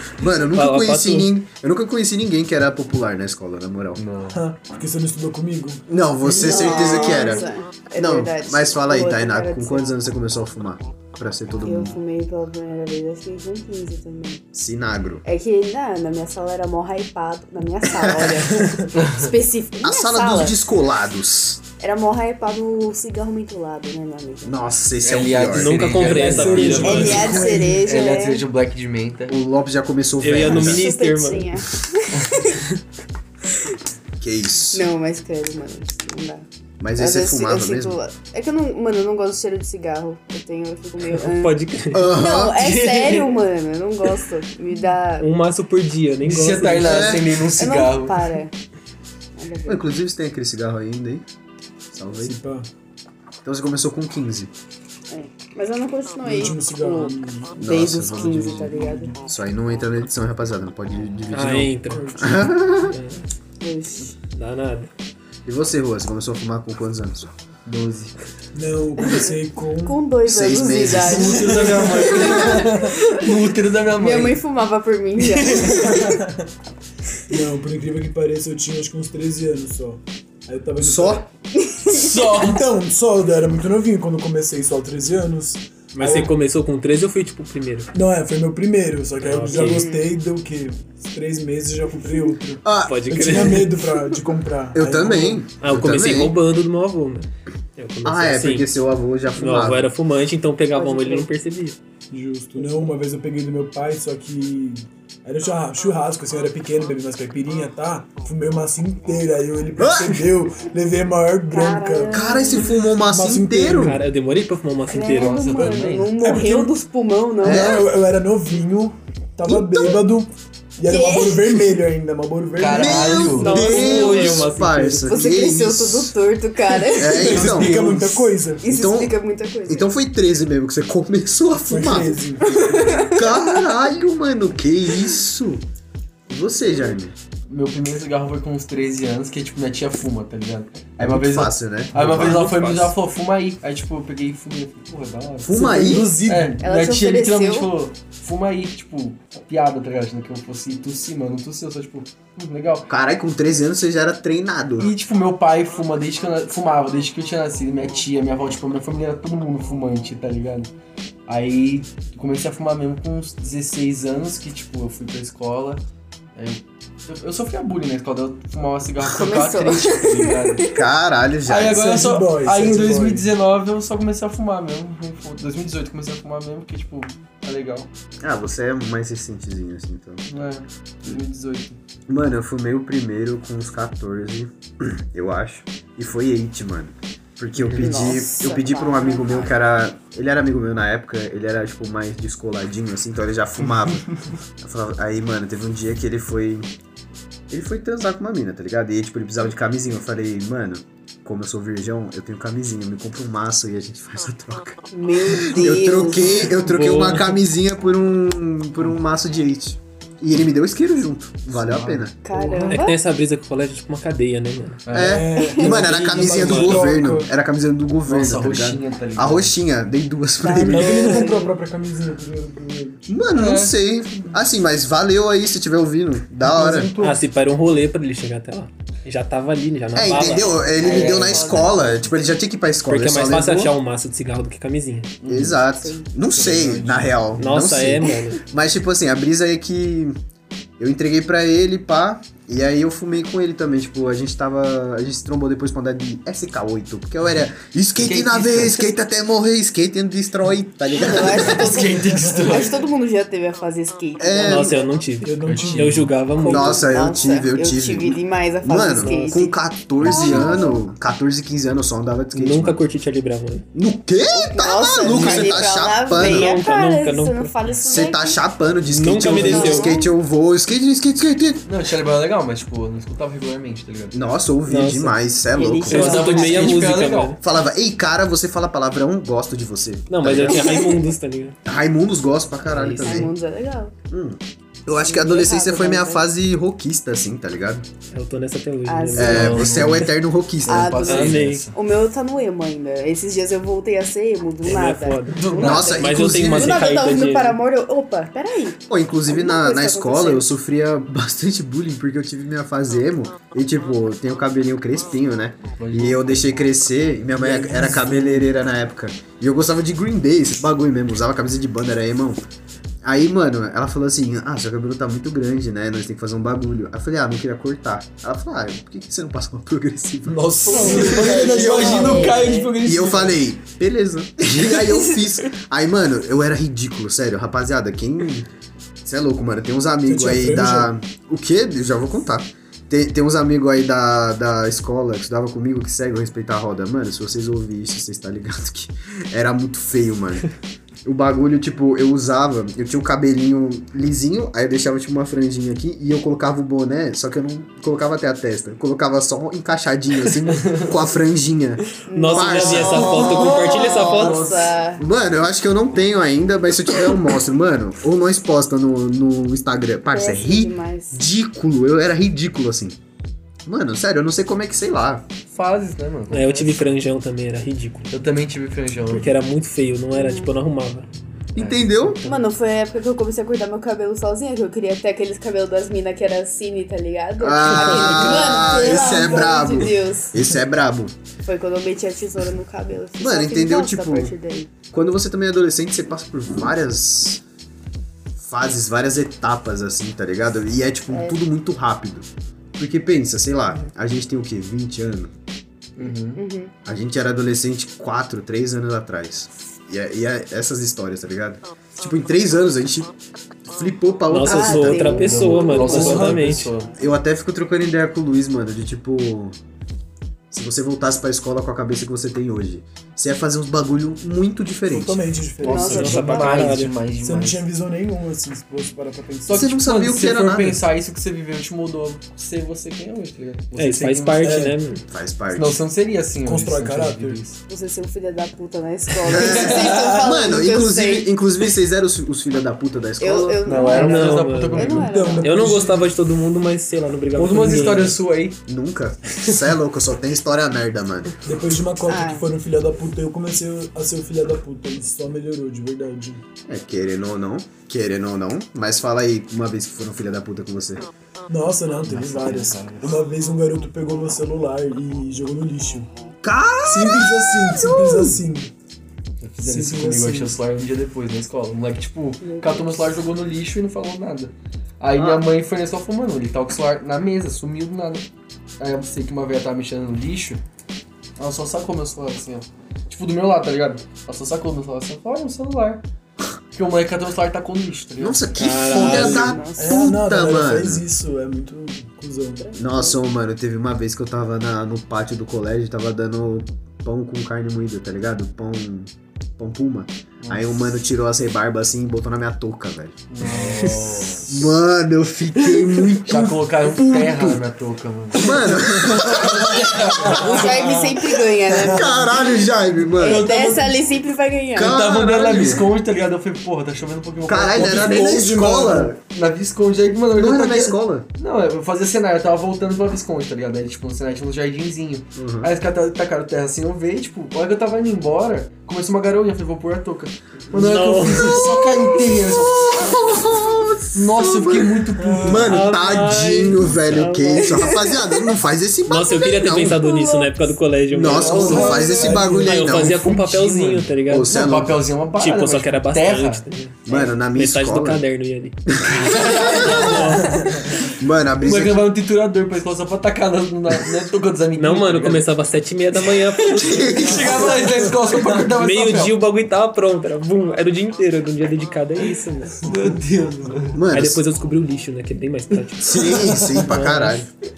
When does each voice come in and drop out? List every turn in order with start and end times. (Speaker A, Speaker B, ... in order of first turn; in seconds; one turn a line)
Speaker A: 0.1-4.0
Speaker B: 0.5-1.3
Speaker C: 3.9-4.4
Speaker D: 4.3-7.3
Speaker A: 5.9-12.0
Speaker E: 6.3-9.9
Speaker E: 11.6-14.4
Speaker A: 14.5-15.2
Speaker E: 15.2-20.6
Speaker A: 18.0-18.4
Speaker C: 18.9-19.3
Speaker A: 19.8-21.6
Speaker E: 21.8-24.5
Speaker A: 24.4-25.9
Speaker C: 25.0-29.4
Speaker B: 25.5-27.6
Speaker D: 26.0-27.8
Speaker E: 26.0-28.4
Speaker A: 29.3-30.8
Speaker B: 30.2-31.6
Speaker E: 30.4-32.6
Speaker A: 34.2-34.9
Speaker E: 34.7-36.4
Speaker A: 36.8-38.0
Speaker E: 37.0-45.3
Speaker B: 41.2-42.1
Speaker A: 41.9-42.6
Speaker C: 42.5-43.4
Speaker B: 45.2-47.2
Speaker C: 46.2-48.4
Speaker A: 46.8-47.3
Speaker E: 47.5-48.5
Speaker E: 49.4-49.8
Speaker A: 49.7-51.2
Speaker A: 51.9-52.4
Speaker D: 52.2-52.7
Speaker A: 53.4-54.5
Speaker E: 55.1-59.1
Speaker D: 56.2-57.5
Speaker A: 57.6-63.0
Speaker D: 58.2-59.2
Speaker B: 61.3-63.2
Speaker D: 61.9-62.5
Speaker E: 63.6-64.2
Speaker B: 64.3-64.9
Speaker A: 65.5-67.3
Speaker C: 67.7-68.1
Speaker D: 68.5-70.0
Speaker E: 69.0-73.2
Speaker A: 70.2-71.6
Speaker D: 70.9-72.9
Speaker C: 71.0-74.4
Speaker E: 74.0-76.1
Speaker C: 75.2-76.1
Speaker D: 75.8-76.5
Speaker D: 77.3-81.2
Speaker A: 80.8-81.2
Speaker E: 81.5-82.3
Speaker C: 81.9-82.6
Speaker D: 82.3-86.3
Speaker B: 85.9-87.9
Speaker D: 87.9-95.4
Speaker B: 89.2-89.9
Speaker E: 89.5-90.1
Speaker A: 92.6-93.4
Speaker B: 92.8-93.8
Speaker A: 94.7-96.3
Speaker B: 95.6-98.7
Speaker A: 98.0-99.9
Speaker B: 99.3-101.8
Speaker E: 100.7-101.3
Speaker D: 102.1-112.3
Speaker A: 109.8-110.3
Speaker E: 111.5-112.7
Speaker A: 112.1-114.0
Speaker D: 113.0-114.0
Speaker B: 113.8-115.7
Speaker E: 114.9-117.8
Speaker C: 115.0-116.2
Speaker D: 116.2-116.7
Speaker A: 117.4-117.9
Speaker D: 117.4-125.5
Speaker A: 119.4-120.0
Speaker E: 120.8-121.7
Speaker C: 122.5-123.5
Speaker A: 122.7-126.1
Speaker B: 123.3-124.9
Speaker E: 123.5-124.3
Speaker E: 125.0-127.4
Speaker A: 126.9-127.9
Speaker C: 127.1-128.3
Speaker D: 127.1-128.6
Speaker E: 128.6-129.9
Speaker A: 128.6-129.1
Speaker A: 129.7-132.2
Speaker D: 131.7-133.1
Speaker E: 132.5-133.7
Speaker A: 133.1-135.6
Speaker A: 136.3-137.1
Speaker C: 137.5-152.9
Speaker A: 141.0-142.9
Speaker B: 142.4-142.8
Speaker A: 145.4-146.1
Speaker D: 145.5-146.6
Speaker E: 146.6-147.7
Speaker A: 152.9-154.9
Speaker C: 154.8-160.7
Speaker C: 161.3-165.8
Speaker C: 166.3-170.7
Speaker E: 169.1-170.8
Speaker A: 170.7-171.9
Speaker C: 171.5-177.9
Speaker D: 171.7-173.3
Speaker A: 178.2-180.2
Speaker C: 180.3-181.8
Speaker A: 182.1-194.1
Speaker B: 187.7-187.9
Speaker E: 187.8-189.5
Speaker A: 194.6-196.7
Speaker A: 197.5-212.1
Speaker E: 204.9-206.5
Speaker B: 206.6-207.4
Speaker C: 211.5-212.1
Speaker E: 212.2-213.0
Speaker D: 212.3-212.8
Speaker B: 212.7-214.9
Speaker C: 214.8-215.3
Speaker A: 214.9-221.3
Speaker D: 214.9-217.3
Speaker E: 215.3-215.7
Speaker B: 215.7-216.9
Speaker C: 218.1-219.5
Speaker E: 220.4-221.5
Speaker D: 220.6-223.2
Speaker A: 223.1-226.9
Speaker C: 223.3-223.7
Speaker D: 226.4-227.2
Speaker B: 227.0-231.6
Speaker A: 229.9-233.7
Speaker E: 230.8-231.8
Speaker C: 230.8-231.6
Speaker B: 232.8-235.2
Speaker C: 235.2-235.6
Speaker A: 235.2-240.1
Speaker E: 235.8-236.1
Speaker C: 236.3-237.2
Speaker B: 237.3-238.4
Speaker A: 240.8-251.8
Speaker C: 248.0-248.9
Speaker E: 250.9-254.9
Speaker C: 251.2-252.8
Speaker D: 252.2-252.6
Speaker A: 254.2-254.8
Speaker B: 254.4-256.9
Speaker D: 255.2-256.1
Speaker C: 255.4-256.1
Speaker A: 256.4-262.8
Speaker E: 256.5-260.8
Speaker B: 258.9-259.4
Speaker B: 262.3-263.6
Speaker A: 263.7-266.5
Speaker E: 264.3-268.4
Speaker B: 265.1-265.6
Speaker B: 266.1-267.8
Speaker A: 267.8-271.6
Speaker B: 268.9-270.0
Speaker E: 269.2-270.1
Speaker C: 271.6-274.2
Speaker A: 274.1-276.1
Speaker B: 274.7-275.2
Speaker E: 275.5-276.8
Speaker B: 275.9-277.4
Speaker C: 275.9-277.4
Speaker A: 277.4-280.9
Speaker B: 280.1-281.6
Speaker E: 280.5-280.9
Speaker A: 281.6-283.3
Speaker B: 282.6-283.3
Speaker E: 283.0-283.9
Speaker A: 284.1-287.9
Speaker E: 284.9-286.3
Speaker B: 288.1-289.9
Speaker E: 288.9-289.6
Speaker A: 289.1-291.1
Speaker C: 289.1-291.7
Speaker E: 290.6-300.5
Speaker B: 291.1-291.6
Speaker B: 294.6-297.6
Speaker C: 295.3-296.4
Speaker A: 295.6-296.8
Speaker A: 298.9-312.4
Speaker C: 305.8-306.4
Speaker D: 307.4-308.5
Speaker A: 313.0-321.0
Speaker D: 320.2-322.5
Speaker E: 320.6-322.7
Speaker C: 320.7-323.4
Speaker A: 322.8-328.5
Speaker A: 329.0-340.5
Speaker D: 330.1-330.9
Speaker A: 341.0-354.0
Speaker C: 350.6-350.9
Speaker E: 352.1-355.0
Speaker B: 352.1-354.5
Speaker C: 352.8-354.7
Speaker A: 355.0-363.0
Speaker E: 360.1-361.2
Speaker A: 363.6-365.2
Speaker C: 365.5-366.9
Speaker B: 366.3-368.1
Speaker C: 368.1-369.3
Speaker B: 369.1-371.1
Speaker E: 370.1-370.5
Speaker A: 371.5-372.2
Speaker C: 371.6-372.3
Speaker E: 372.2-380.3
Speaker A: 377.4-381.1
Speaker D: 378.0-379.9
Speaker E: 381.4-384.7
Speaker A: 383.2-384.3
Speaker A: 384.9-387.4
Speaker A: 388.4-395.3
Speaker E: 391.1-391.4
Speaker C: 396.0-396.4
Speaker E: 396.3-396.7
Speaker A: 396.8-405.3
Speaker B: 404.3-406.7
Speaker E: 404.4-406.3
Speaker C: 405.0-406.9
Speaker D: 405.9-406.7
Speaker A: 407.0-409.6
Speaker A: 410.5-415.2
Speaker D: 414.9-419.7
Speaker C: 415.6-417.6
Speaker E: 415.6-416.5
Speaker B: 415.8-417.0
Speaker C: 419.4-424.6
Speaker A: 419.5-420.8
Speaker B: 423.8-425.0
Speaker D: 424.4-424.8
Speaker A: 425.1-425.8
Speaker C: 425.5-427.6
Speaker D: 426.4-427.4
Speaker E: 427.7-431.4
Speaker A: 429.3-433.6
Speaker C: 429.3-430.1
Speaker E: 433.2-435.7
Speaker C: 433.6-435.3
Speaker B: 433.9-438.2
Speaker D: 434.9-436.1
Speaker C: 437.4-438.6
Speaker A: 438.7-441.3
Speaker D: 441.4-446.4
Speaker E: 442.1-442.5
Speaker A: 446.7-451.1
Speaker D: 451.5-456.1
Speaker C: 452.0-453.2
Speaker A: 456.4-458.4
Speaker D: 456.8-458.7
Speaker C: 459.4-468.2
Speaker D: 459.6-460.5
Speaker E: 462.4-463.1
Speaker A: 465.1-465.4
Speaker C: 468.8-470.6
Speaker C: 471.4-476.0
Speaker C: 476.7-479.4
Speaker A: 478.2-481.1
Speaker B: 478.5-479.6
Speaker E: 478.9-480.1
Speaker D: 479.7-482.6
Speaker E: 482.6-483.2
Speaker A: 482.7-493.2
Speaker C: 490.4-490.8
Speaker C: 493.3-494.8
Speaker D: 493.5-493.8
Speaker A: 494.4-497.6
Speaker C: 496.1-501.1
Speaker A: 498.4-500.7
Speaker E: 500.3-502.3
Speaker A: 501.8-503.4
Speaker C: 503.1-504.0
Speaker E: 503.2-505.1
Speaker A: 504.7-505.9
Speaker C: 504.8-508.3
Speaker A: 507.4-509.2
Speaker D: 507.7-509.1
Speaker C: 509.2-523.5
Speaker A: 510.3-511.2
Speaker A: 515.3-515.7
Speaker B: 520.7-521.7
Speaker A: 521.4-530.1
Speaker C: 524.1-525.9
Speaker D: 525.2-525.7
Speaker B: 525.5-528.0
Speaker E: 527.5-528.5
Speaker B: 529.1-534.5
Speaker E: 529.9-530.6
Speaker A: 531.1-533.4
Speaker C: 531.2-532.1
Speaker D: 531.4-533.0
Speaker E: 531.6-532.4
Speaker C: 533.2-536.6
Speaker A: 534.3-535.0
Speaker B: 535.4-540.8
Speaker A: 537.1-538.2
Speaker A: 539.0-540.0
Speaker C: 539.0-540.5
Speaker D: 540.6-540.9
Speaker A: 541.1-542.0
Speaker C: 541.6-545.5
Speaker B: 544.8-547.3
Speaker C: 546.3-549.4
Speaker A: 546.7-547.9
Speaker D: 547.4-548.7
Speaker B: 548.8-552.9
Speaker C: 552.8-554.0
Speaker A: 553.9-554.4
Speaker B: 554.1-557.5
Speaker A: 556.0-557.5
Speaker C: 556.4-556.8